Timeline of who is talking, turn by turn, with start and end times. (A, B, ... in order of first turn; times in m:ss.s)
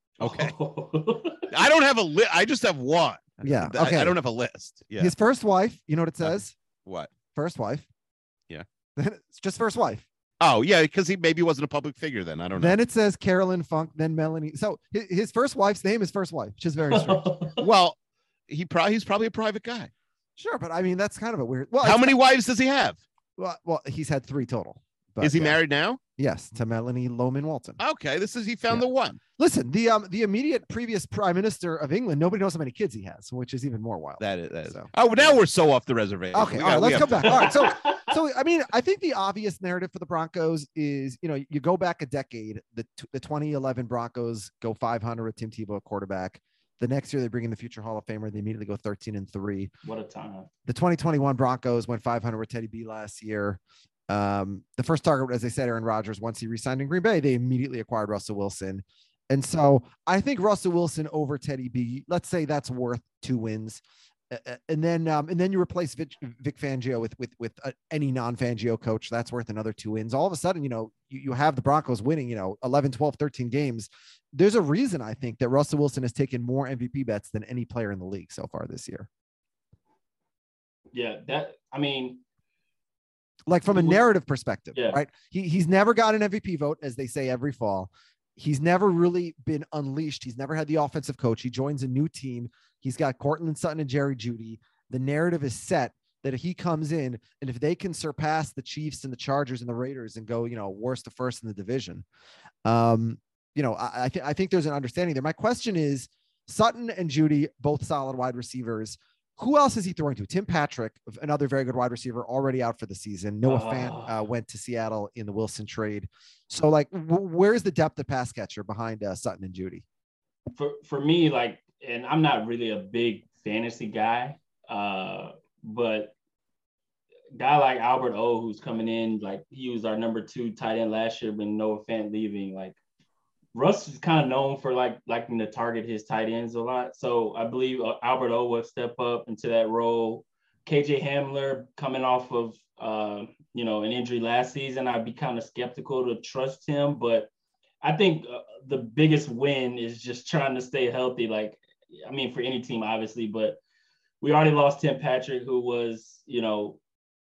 0:00.2-0:00.5 A
0:00.2-0:01.5 B
0:01.5-0:05.1 A
0:03.4-0:04.2 C
0:05.0-0:06.5 C
0:06.2-0:07.1 A
0:07.3-0:07.9 C
0:09.0-0:10.0 C
0:10.4-0:12.8 A
0:12.5-0:17.3 C
0:16.9-0:17.6 B
0:17.6-0:18.0 A
0:18.5-0:19.9 A
0:20.4-0:22.2 C
0:21.8-0:23.0 A
0:23.4-0:25.6 C
0:25.2-0:26.0 A
0:26.2-0:27.8 C
0:27.8-0:29.2 A
0:29.4-0:35.4 C
0:34.2-0:37.6 A
0:36.3-0:49.7 C
0:37.3-0:38.1 B
0:49.8-0:50.5 B
0:50.6-1:19.1 C
1:20.9-1:22.2 B
1:23.5-1:42.0 C
1:23.7-1:24.0 B
1:24.7-1:25.0 B
1:42.6-1:59.8 C
1:53.4-1:54.2 B
2:00.6-2:06.1 B
2:07.4-2:12.8 B
2:13.5-2:27.3 B
2:27.8-2:33.6 B
2:34.2-2:36.8 B